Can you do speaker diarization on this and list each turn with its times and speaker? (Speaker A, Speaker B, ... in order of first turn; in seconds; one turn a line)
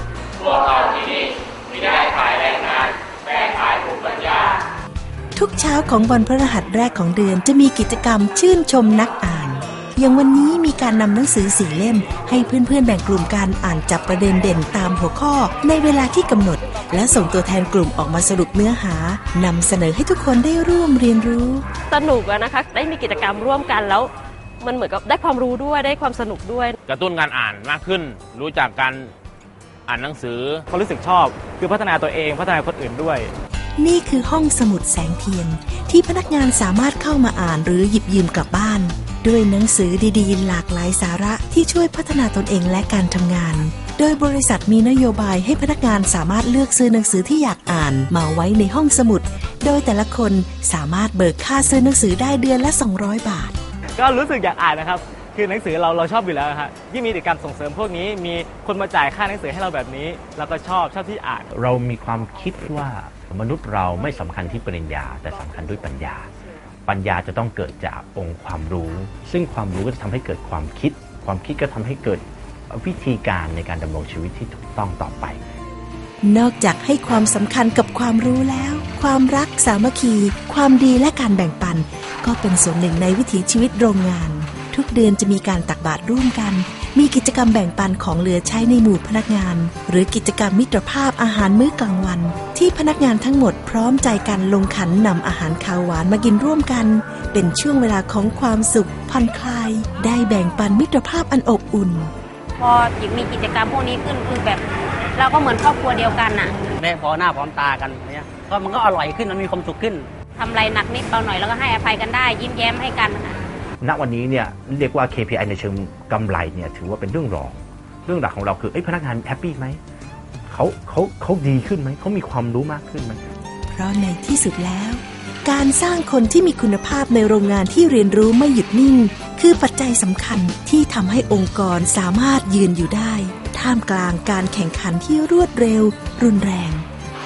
Speaker A: 1.8-2.7
Speaker A: 3.4-4.2
Speaker B: 5.3-21.6
Speaker C: 21.9-26.7
Speaker A: 26.9-29.1
Speaker A: 29.9-30.6
Speaker D: 30.7-33.3
Speaker B: 33.8-53.5
Speaker D: 54.0-61.5
Speaker E: 61.5-66.3
Speaker E: 66.8-75.4
Speaker B: 76.2-102.1
Speaker F: 102.6-104.6
Speaker F: 105.2-106.5
Speaker G: 106.8-110.0
Speaker F: 110.4-113.4
Speaker E: 113.8-119.8
Speaker E: 120.5-123.2
Speaker B: 123.7-136.8